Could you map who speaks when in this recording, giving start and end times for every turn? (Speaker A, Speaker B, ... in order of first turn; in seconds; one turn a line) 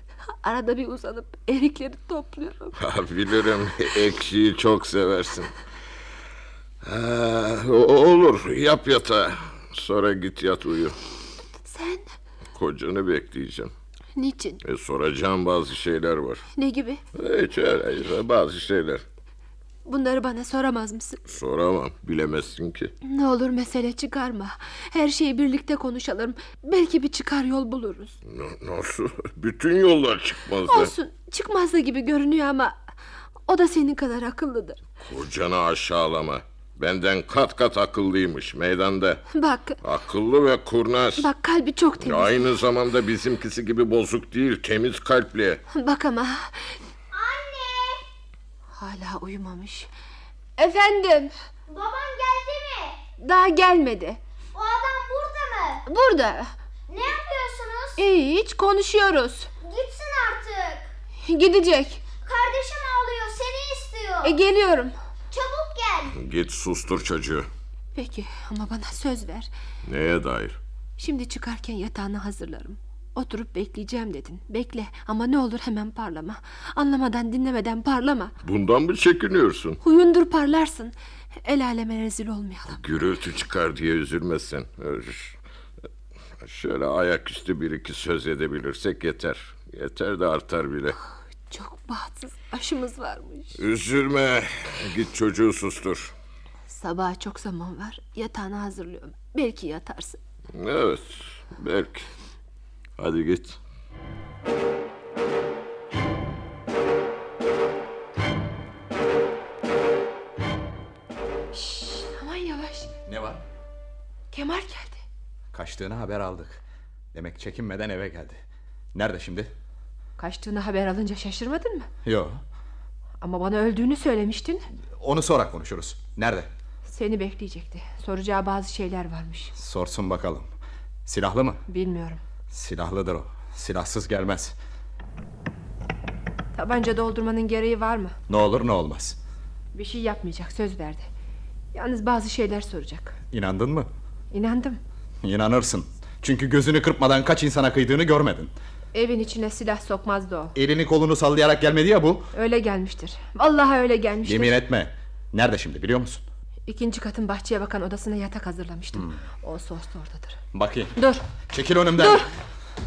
Speaker A: 0.4-2.8
Speaker B: 2.8-5.5
Speaker B: 6.8-11.0
Speaker A: 11.7-12.1
Speaker B: 12.5-13.7
Speaker A: 14.2-14.6
Speaker B: 14.6-16.4
Speaker A: 16.6-17.0
Speaker B: 17.1-19.0
Speaker A: 19.9-21.2
Speaker B: 21.3-22.9
Speaker A: 23.0-28.2
Speaker B: 28.3-30.9
Speaker A: 30.7-32.8
Speaker A: 33.5-34.8
Speaker B: 35.0-39.2
Speaker A: 39.4-39.8
Speaker B: 39.8-41.3
Speaker A: 41.2-42.5
Speaker B: 42.0-45.6
Speaker A: 45.7-46.8
Speaker C: 47.1-48.0
Speaker A: 48.7-49.9
Speaker A: 50.6-51.3
Speaker C: 51.7-53.0
Speaker A: 53.2-54.2
Speaker C: 54.5-55.8
Speaker A: 55.9-56.5
Speaker C: 56.9-58.0
Speaker A: 58.0-59.5
Speaker C: 59.6-60.9
Speaker A: 61.2-62.0
Speaker C: 62.2-64.3
Speaker A: 64.2-64.9
Speaker C: 65.3-66.2
Speaker B: 66.2-67.5
Speaker A: 68.0-69.5
Speaker B: 69.9-70.6
Speaker A: 71.0-78.3
Speaker B: 78.4-79.8
Speaker A: 79.8-82.8
Speaker B: 82.7-85.4
Speaker B: 86.4-91.0
Speaker A: 91.5-93.5
Speaker B: 93.6-96.1
Speaker A: 96.7-100.2
Speaker B: 100.5-102.1
Speaker B: 103.0-103.6
Speaker A: 111.5-112.9
Speaker D: 113.1-113.4
Speaker A: 114.3-115.0
Speaker D: 115.5-116.6
Speaker D: 117.1-118.4
Speaker D: 118.9-119.5
Speaker A: 120.2-121.9
Speaker D: 122.0-122.4
Speaker A: 123.2-124.6
Speaker D: 125.0-126.5
Speaker A: 126.9-129.5
Speaker D: 129.6-130.5
Speaker D: 131.1-131.6
Speaker A: 131.7-132.2
Speaker D: 132.5-134.6
Speaker A: 136.6-138.2
Speaker D: 138.3-139.2
Speaker A: 139.7-141.1
Speaker A: 141.7-143.2
Speaker D: 143.3-143.9
Speaker A: 144.3-144.8
Speaker D: 145.2-148.5
Speaker A: 148.9-150.5
Speaker D: 150.6-152.3
Speaker A: 152.3-154.6
Speaker D: 154.2-156.2
Speaker A: 156.7-160.4
Speaker D: 160.5-160.9
Speaker A: 161.0-161.2
Speaker D: 161.5-162.3
Speaker A: 162.0-162.3